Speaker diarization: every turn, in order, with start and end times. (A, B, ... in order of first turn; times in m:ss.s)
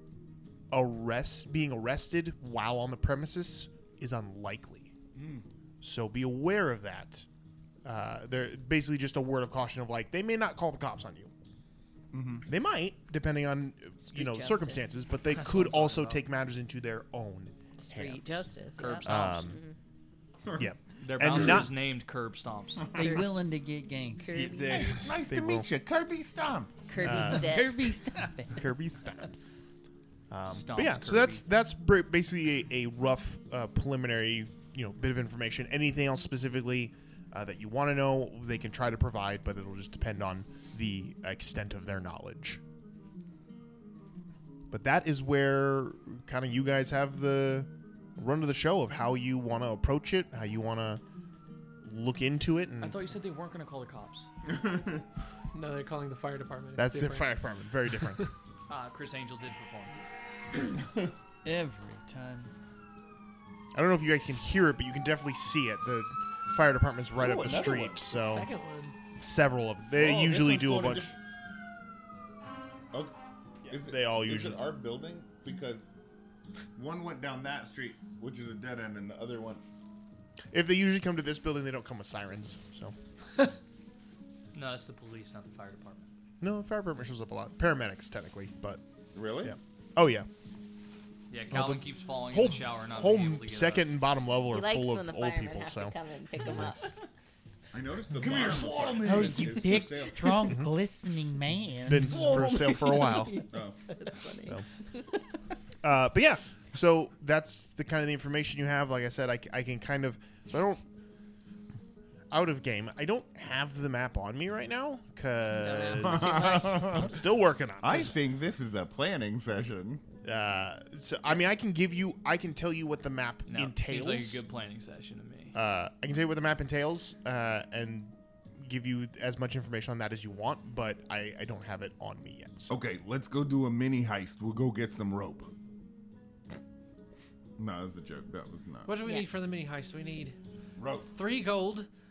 0:00.7-0:04.9 A
0:05.1-0:05.4 B
0:05.8-0:07.3 A
0:07.8-0:11.3 A
0:12.1-0:12.5 B
0:12.4-0:19.6 A
0:14.0-0:14.9 C
0:15.3-0:16.2 D
0:17.8-0:19.8 C
0:18.8-0:19.4 D
0:20.4-0:21.7 B
0:20.6-0:21.7 A
0:21.0-0:23.2 D
0:22.9-0:24.3 E
0:23.0-0:23.3 C
0:24.2-0:25.1 C
0:24.3-0:25.6 A
0:24.8-0:26.9 B
0:26.9-0:28.1 C
0:27.0-0:27.6 A
0:27.0-0:28.5 E
0:28.5-0:29.3 A
0:30.3-0:42.6 A
0:30.5-0:31.4 D
0:44.7-0:51.0 A
0:51.8-0:53.0 A
0:52.8-0:54.3 D
0:54.5-0:55.0 B
0:55.5-0:57.3 F
0:56.8-0:58.3 A
0:58.7-0:59.9 D
1:00.7-1:01.1 B
1:01.4-1:02.5 E
1:03.7-1:08.5 A
1:07.2-1:08.0 B
1:08.1-1:09.0 F
1:09.2-1:11.1 A
1:09.9-1:11.2 B
1:13.6-1:14.6 A
1:13.6-1:15.9 B
1:16.8-1:19.6 B
1:20.5-1:22.9 A
1:24.5-1:26.0 D
1:26.4-1:28.8 A
1:29.1-1:29.6 B
1:29.4-1:30.3 A
1:31.3-1:33.9 D
1:31.5-1:36.8 A
1:34.5-1:36.9 C
1:37.7-1:40.5 B
1:38.1-1:39.8 D
1:39.0-1:42.3 E
1:40.4-1:40.7 A
1:41.8-1:43.5 A
1:42.0-1:43.1 D
1:42.3-1:45.1 C
1:43.5-1:43.8 B
1:45.8-1:50.8 A
1:52.3-1:58.2 A
1:55.5-1:57.0 C
1:55.9-1:57.1 B
1:57.8-2:00.0 B
2:00.2-2:04.4 A
2:03.5-2:05.5 D
2:05.5-2:12.8 A
2:12.7-2:15.5 B
2:17.6-2:19.0 B
2:18.8-2:20.4 F
2:20.8-2:21.0 B
2:21.0-2:21.9 F